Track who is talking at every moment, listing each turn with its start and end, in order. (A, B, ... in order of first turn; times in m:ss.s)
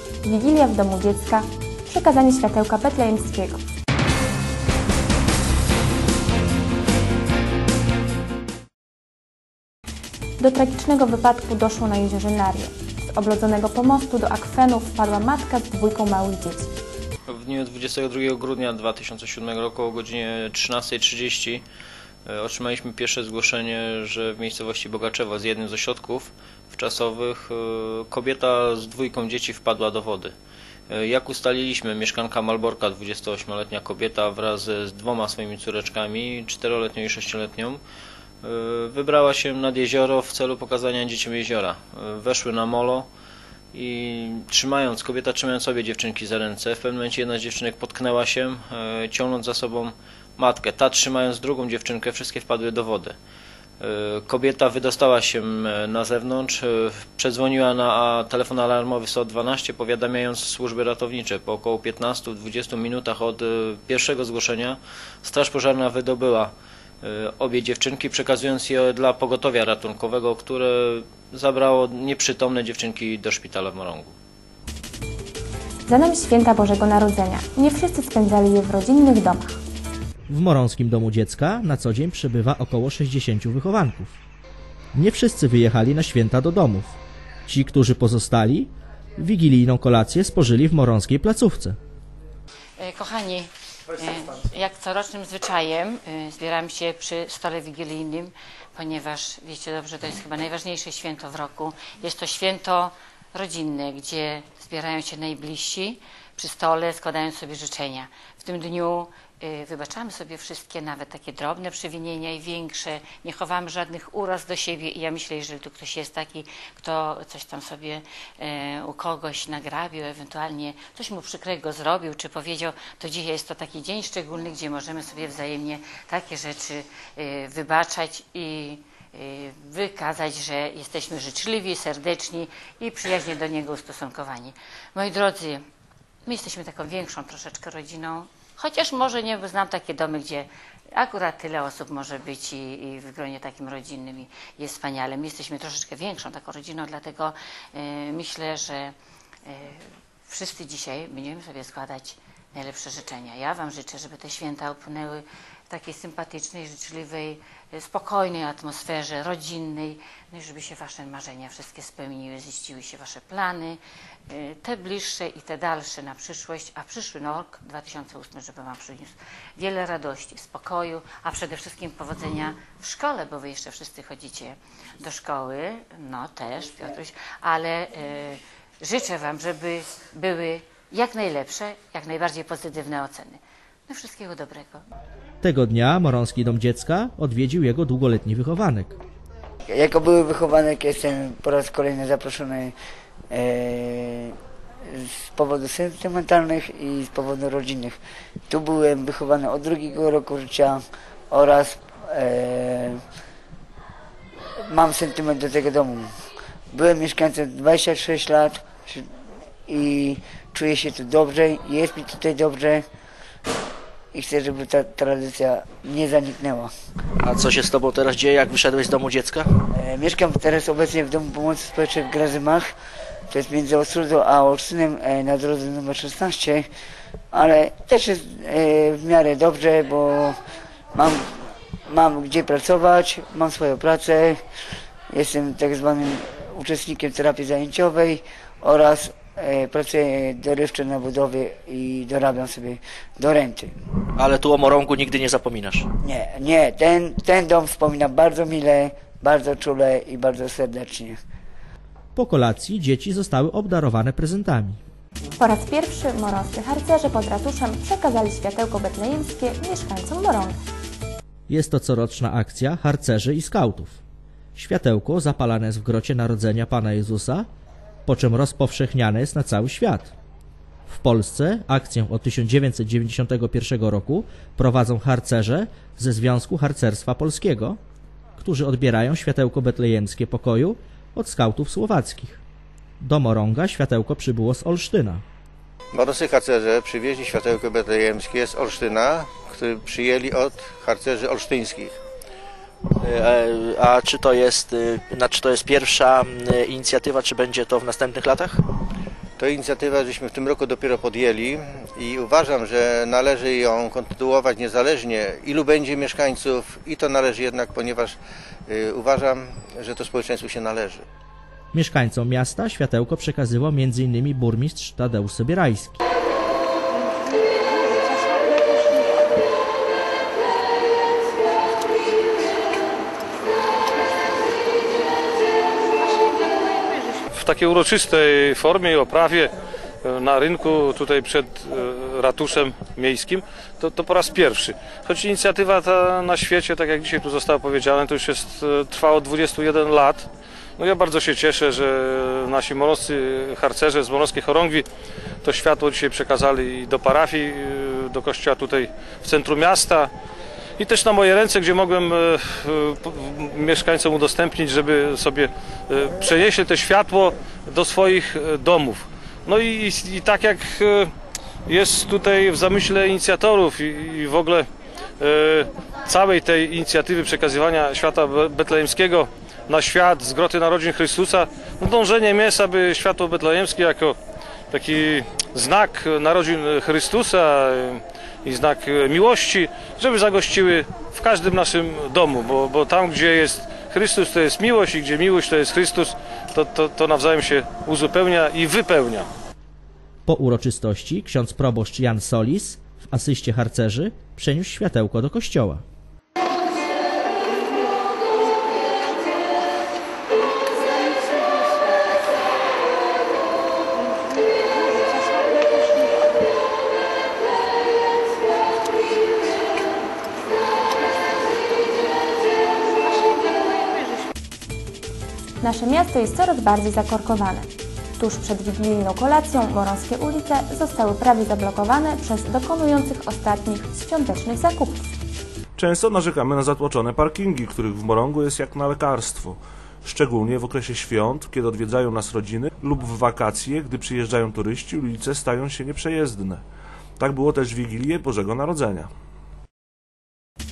0:00.2-0:03.6 A
0:10.4-0:16.7 A
0:17.3-0:21.6 B
0:22.2-0:30.3 B
0:30.9-0:37.8 B
0:38.4-0:43.1 B
0:43.7-0:53.2 B
0:53.8-1:14.1 B
1:15.9-1:19.6 A
1:20.3-1:24.1 C
1:24.9-1:31.8 C
1:32.8-2:15.6 D
2:16.2-2:28.9 D
2:29.5-3:04.8 D
3:05.4-3:08.9 C
3:09.7-3:12.7 E
3:13.3-3:14.3 E
3:14.9-3:18.0 E
3:18.5-3:23.0 E
3:24.7-3:26.1 E
3:26.7-3:29.0 E
3:29.7-3:32.8 E
3:34.1-3:36.7 E
3:37.2-3:39.5 F
3:39.7-3:42.7 E
3:43.3-3:46.7 E
3:47.3-3:50.4 E
3:50.9-3:54.4 E
3:55.1-4:03.7 E
4:04.2-4:05.9 F
4:06.0-4:11.2 E
4:12.2-4:14.8 C
4:15.4-4:20.6 A
4:21.5-4:24.0 C
4:24.6-4:27.5 C
4:28.0-4:30.1 C
4:30.9-4:37.8 C
4:38.4-4:42.4 C
4:43.0-4:45.2 C
4:45.9-4:52.0 G
4:53.0-4:58.6 F
4:59.4-5:11.0 G
5:11.7-5:16.0 C
5:27.3-5:29.5 H
5:30.0-5:44.8 H
5:45.4-5:50.1 H
5:50.8-6:01.1 H
6:01.7-6:04.7 H
6:05.2-6:14.2 H
6:14.7-6:29.3 H
6:30.3-6:35.8 C
6:55.6-6:57.7 A
6:58.2-7:05.1 A
7:05.8-7:16.6 I
7:17.2-7:19.1 I